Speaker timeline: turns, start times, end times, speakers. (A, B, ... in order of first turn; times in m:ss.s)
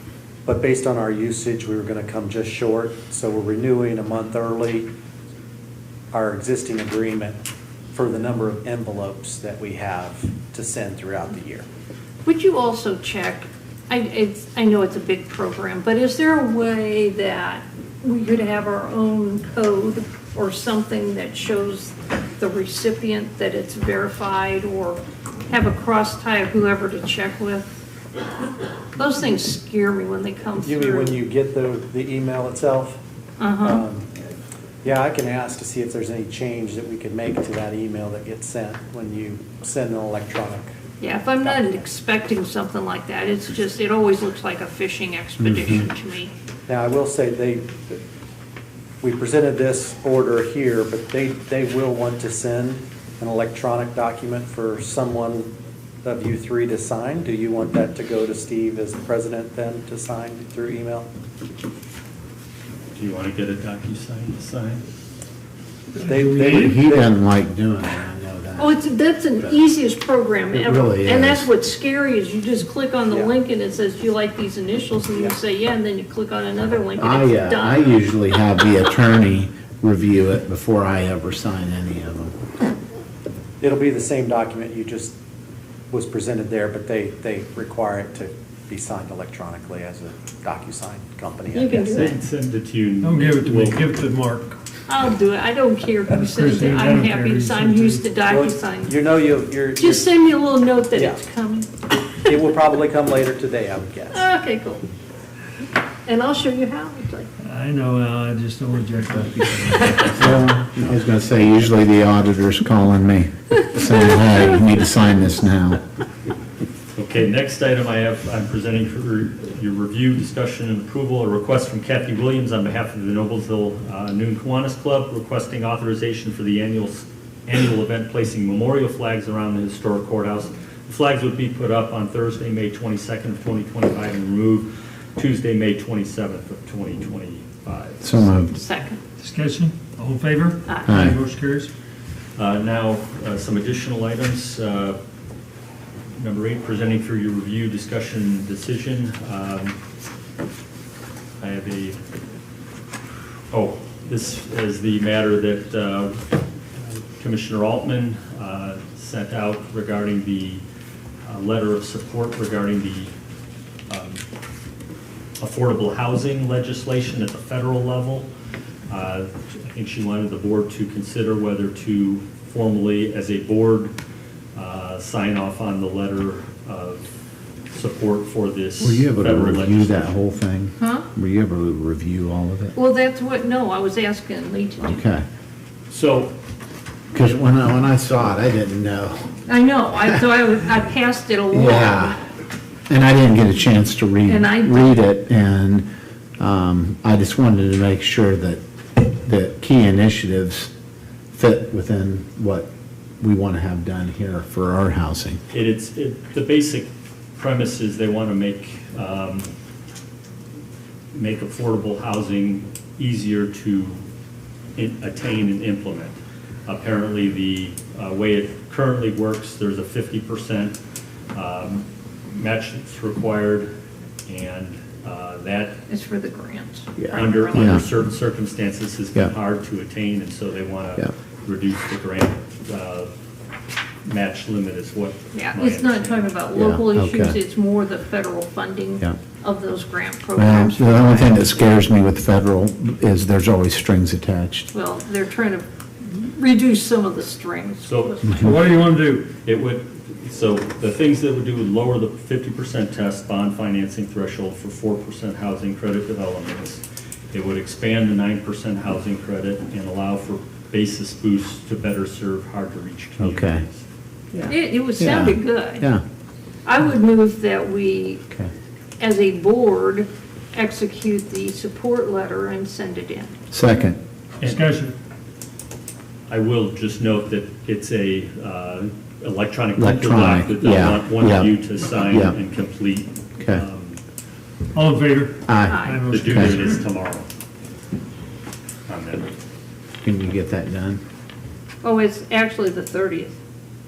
0:00.5-0:04.9 A
0:06.1-0:07.4 A
0:07.9-0:11.6 A
0:12.2-0:27.8 B
0:29.0-0:31.2 B
0:30.6-0:33.0 A
0:33.4-0:33.8 B
0:33.6-0:34.1 A
0:34.8-0:40.8 A
0:41.0-0:46.3 B
0:41.4-0:41.8 A
0:45.4-0:45.9 C
0:46.7-0:48.0 A
0:49.0-0:55.5 A
0:56.0-1:01.1 A
1:03.0-1:04.9 D
1:06.0-1:06.8 E
1:06.0-1:06.8 A
1:06.5-1:08.8 C
1:08.6-1:18.0 B
1:10.5-1:11.5 C
1:13.1-1:13.4 A
1:17.0-1:22.3 C
1:23.6-1:25.2 A
1:25.9-1:32.1 A
1:31.5-1:32.2 B
1:31.8-1:33.8 D
1:33.0-1:34.6 E
1:34.9-1:39.0 B
1:36.1-1:38.0 E
1:38.3-1:40.1 A
1:39.8-1:41.7 B
1:40.9-1:41.2 A
1:42.2-1:44.3 A
1:44.1-1:44.8 B
1:46.1-1:47.3 B
1:47.4-1:50.4 E
1:50.1-1:55.8 C
1:54.1-1:54.4 B
1:56.9-2:18.1 D
2:18.0-2:18.6 C
2:18.4-2:19.0 B
2:19.2-2:21.7 E
2:20.7-2:21.0 B
2:20.9-2:21.2 C
2:22.4-2:25.0 D
2:26.2-2:29.8 D
2:31.4-2:32.0 D
2:33.5-2:40.6 D
2:41.2-2:43.1 D
2:43.9-2:44.2 D
2:45.4-2:48.3 D
2:48.9-2:53.9 D
2:54.6-2:57.1 D
2:57.7-3:00.2 D
2:58.8-3:02.8 C
3:00.8-3:01.1 B
3:02.8-3:05.0 B
3:04.8-3:05.2 C
3:05.9-3:06.3 D
3:07.1-3:09.4 C
3:09.5-3:12.2 B
3:11.5-3:12.2 C
3:12.9-3:15.9 C
3:14.3-3:14.9 B
3:16.4-3:20.7 C
3:21.4-3:22.7 C
3:23.2-3:25.4 C
3:25.5-3:29.5 D
3:31.1-3:34.0 D
3:34.8-3:40.8 D
3:41.3-3:43.7 D
3:44.3-3:45.8 D
3:45.9-3:47.8 B
3:47.0-3:47.8 C
3:47.1-3:53.1 D
3:54.0-3:56.3 D
3:55.4-4:01.6 B
3:56.5-3:57.4 C
4:00.4-4:04.7 C
4:04.7-4:08.8 B
4:07.8-4:08.8 D
4:08.4-4:09.3 E
4:09.3-4:23.8 D
4:23.2-4:23.6 C
4:24.3-4:26.0 C
4:24.5-4:25.9 B
4:26.7-4:28.2 B
4:29.0-4:33.4 B
4:33.5-4:34.0 C
4:34.4-4:34.7 D
4:34.4-4:34.9 E
4:36.3-4:44.0 D
4:39.8-4:42.4 C
4:44.7-4:46.8 E
4:45.5-4:46.5 C
4:45.7-4:46.1 B
4:46.1-4:47.3 D
4:48.9-4:49.3 D
4:50.0-4:51.0 C
4:51.8-4:53.4 B